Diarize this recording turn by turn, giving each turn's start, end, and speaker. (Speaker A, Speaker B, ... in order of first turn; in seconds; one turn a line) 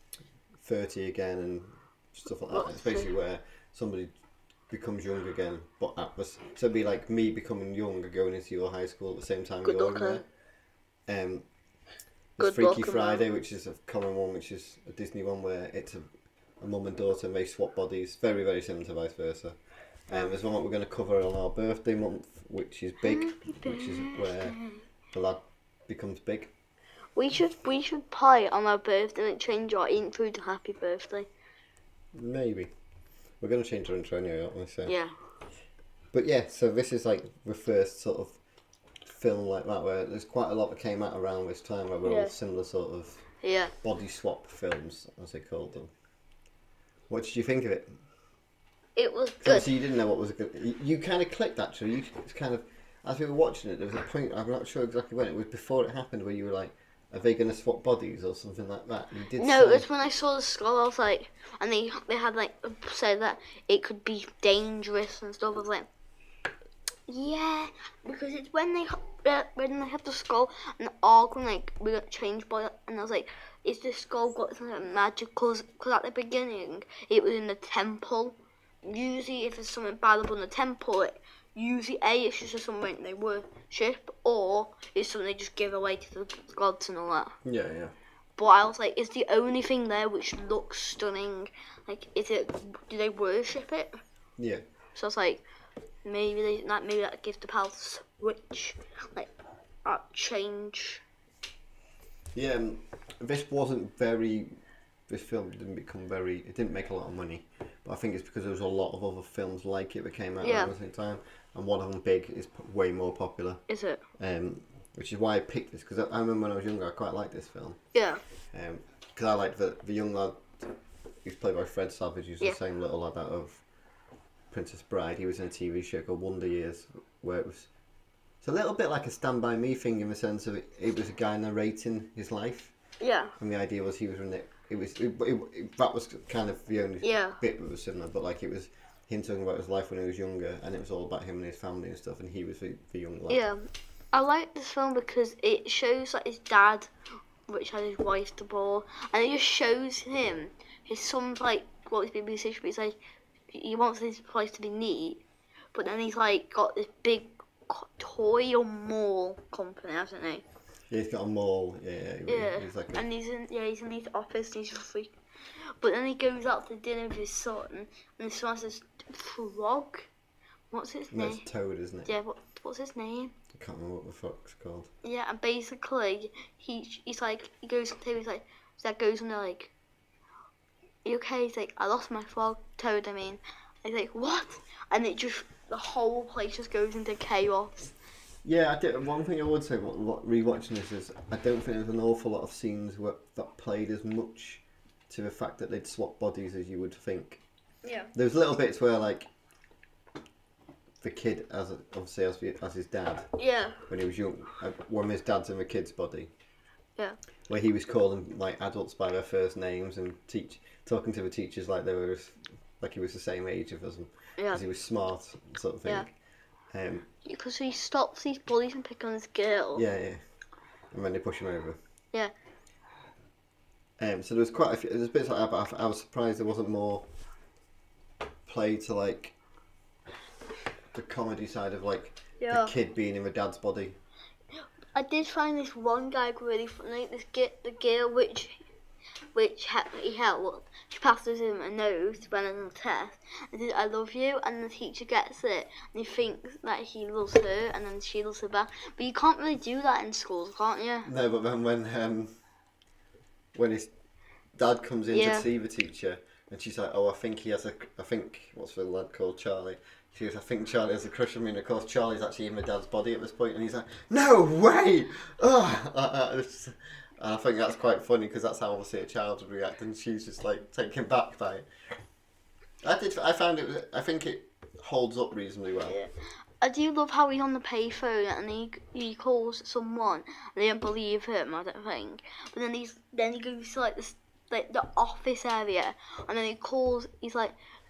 Speaker A: 0.6-4.1
Speaker B: 2.5-3.1
Speaker A: 4.7-10.2
Speaker B: 9.6-10.2
Speaker A: 11.1-11.4
Speaker A: 12.4-19.6
Speaker B: 12.4-13.2
Speaker A: 20.1-24.6
Speaker B: 23.0-24.8
Speaker A: 25.1-26.5
Speaker B: 27.1-31.3
Speaker A: 32.1-32.7
Speaker A: 33.4-34.9
Speaker B: 34.9-35.1
Speaker A: 36.1-38.4
Speaker A: 39.0-43.2
Speaker B: 42.0-42.3
Speaker B: 43.4-43.7
Speaker A: 43.8-45.9
Speaker A: 47.1-47.9
Speaker B: 49.0-49.7
Speaker A: 49.4-59.9
Speaker B: 59.4-65.9
Speaker B: 67.1-87.3
Speaker A: 87.4-87.9
Speaker B: 88.4-94.0
Speaker A: 94.4-94.6
Speaker B: 94.9-95.4
Speaker B: 96.0-99.3
Speaker B: 99.8-101.0
Speaker A: 102.3-113.6
Speaker B: 110.4-110.7
Speaker B: 113.7-114.0
Speaker A: 114.2-117.8
Speaker B: 117.9-118.2
Speaker A: 118.5-120.7
Speaker A: 121.2-123.6
Speaker A: 124.5-127.7
Speaker A: 128.4-132.7
Speaker B: 133.0-133.3
Speaker A: 133.4-143.4
Speaker B: 137.0-137.4
Speaker B: 143.3-146.9
Speaker B: 147.5-153.0
Speaker B: 153.5-155.2
Speaker B: 155.7-160.4
Speaker A: 160.9-163.0
Speaker B: 162.3-165.1
Speaker B: 165.8-170.1
Speaker B: 170.7-171.4
Speaker A: 171.1-172.2
Speaker B: 172.1-173.3
Speaker A: 173.5-174.9
Speaker B: 175.0-179.7
Speaker B: 181.0-187.9
Speaker A: 188.4-197.4
Speaker B: 197.8-198.1
Speaker A: 198.1-199.3
Speaker A: 201.0-203.3
Speaker B: 203.4-203.8
Speaker A: 203.9-206.3
Speaker A: 207.5-216.1
Speaker B: 214.4-214.6
Speaker A: 216.7-217.1
Speaker B: 217.2-219.8
Speaker A: 219.7-220.2
Speaker A: 220.9-221.8
Speaker A: 224.0-227.1
Speaker A: 228.4-229.3
Speaker A: 230.9-234.0
Speaker B: 232.4-232.7
Speaker B: 234.9-238.6
Speaker B: 239.3-251.1
Speaker A: 251.0-252.3
Speaker A: 253.5-253.9
Speaker A: 254.6-271.7
Speaker B: 255.1-255.4
Speaker A: 272.8-276.0
Speaker B: 275.8-276.1
Speaker B: 276.6-287.5